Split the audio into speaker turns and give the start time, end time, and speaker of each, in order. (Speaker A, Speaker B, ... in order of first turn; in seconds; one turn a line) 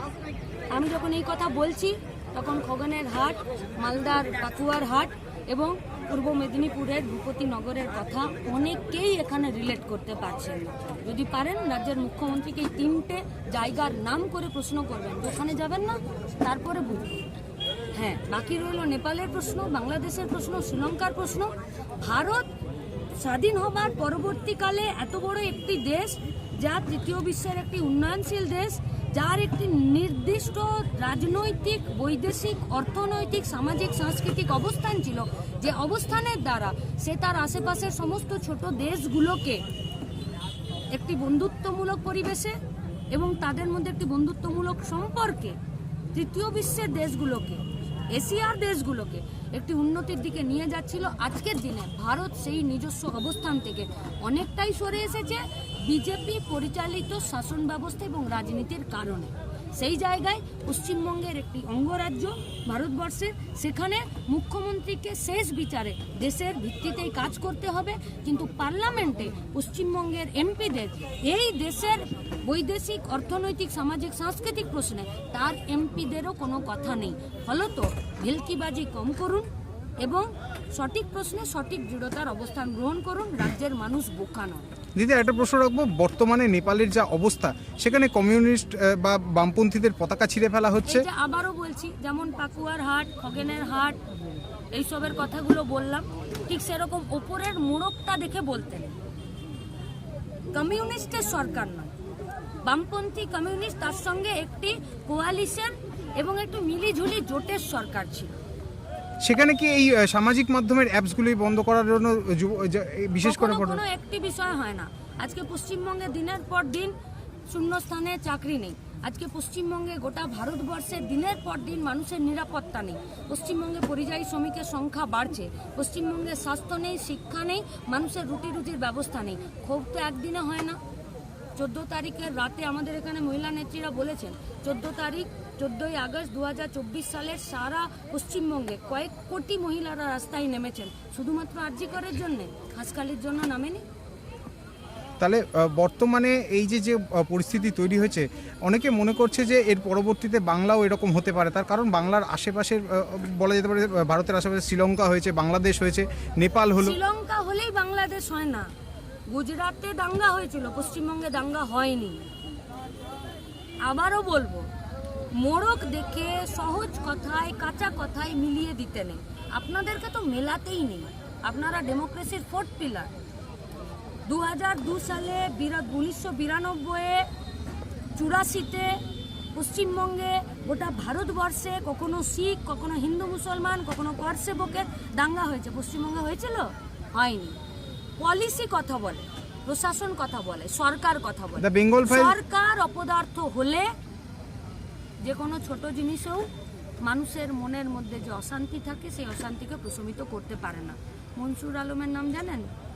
Speaker A: 0.7-17.2
Speaker A: 17.9-22.5
Speaker A: 23.2-39.6
Speaker A: 40.9-42.5
Speaker A: 43.1-45.6
Speaker A: 46.1-79.5
Speaker A: 80.0-84.7
Speaker B: 85.0-91.0
Speaker A: 90.8-94.0
Speaker A: 94.7-99.0
Speaker A: 100.5-101.9
Speaker A: 102.6-108.3
Speaker B: 109.2-113.8
Speaker A: 113.2-116.9
Speaker A: 117.5-130.8
Speaker A: 131.6-143.8
Speaker B: 145.2-157.0
Speaker A: 156.8-158.7
Speaker A: 159.3-162.3
Speaker A: 163.8-164.7
Speaker A: 165.3-173.1
Speaker A: 174.2-177.3
Speaker A: 178.1-179.0
Speaker A: 179.5-187.6
Speaker A: 188.2-193.9
Speaker B: 191.6-192.3
Speaker A: 195.2-196.5
Speaker A: 197.0-202.7